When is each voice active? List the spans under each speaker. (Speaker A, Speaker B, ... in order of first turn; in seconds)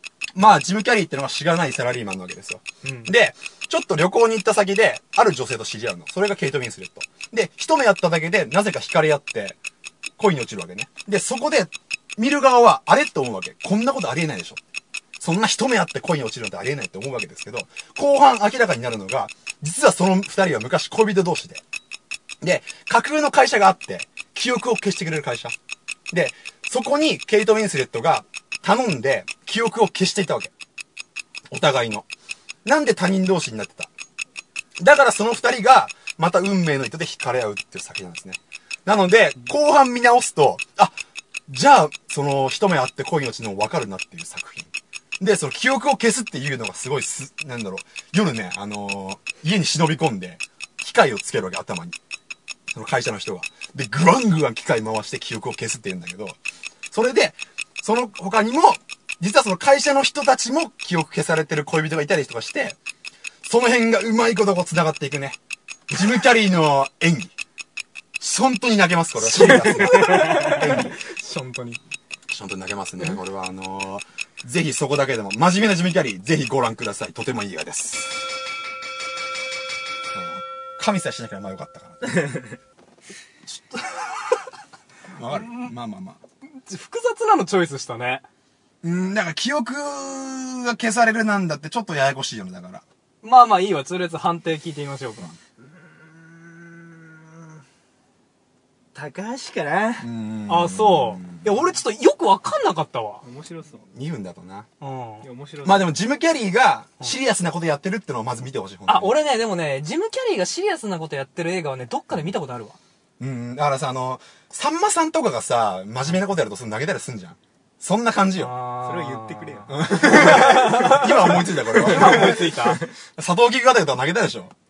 Speaker A: 0.3-9.6, 10.2-14.6, 15.2-21.6, 22.4-25.5, 26.1-30.5, 31.5-32.0, 32.6-33.9, 34.8-40.9, 41.5-52.0, 52.7-56.4, 56.9-62.8, 63.4-65.4, 65.9-67.3, 68.2-71.0, 72.3-78.2, 80.1-82.4, 83.5-83.8, 85.1-86.2, 88.8-92.8, 100.0-101.5, 103.9-104.7, 105.6-109.1, 113.2-118.5, 119.7-124.5
Speaker B: 2.8-3.1, 69.2-71.8, 85.3-85.7, 86.7-88.2, 93.2-95.3, 100.5-103.2, 104.8-105.2, 108.9-112.8, 118.4-122.8
Speaker C: 95.6-97.5, 98.9-100.1, 103.2-103.8, 105.2-106.0, 118.8-121.1, 121.9-122.7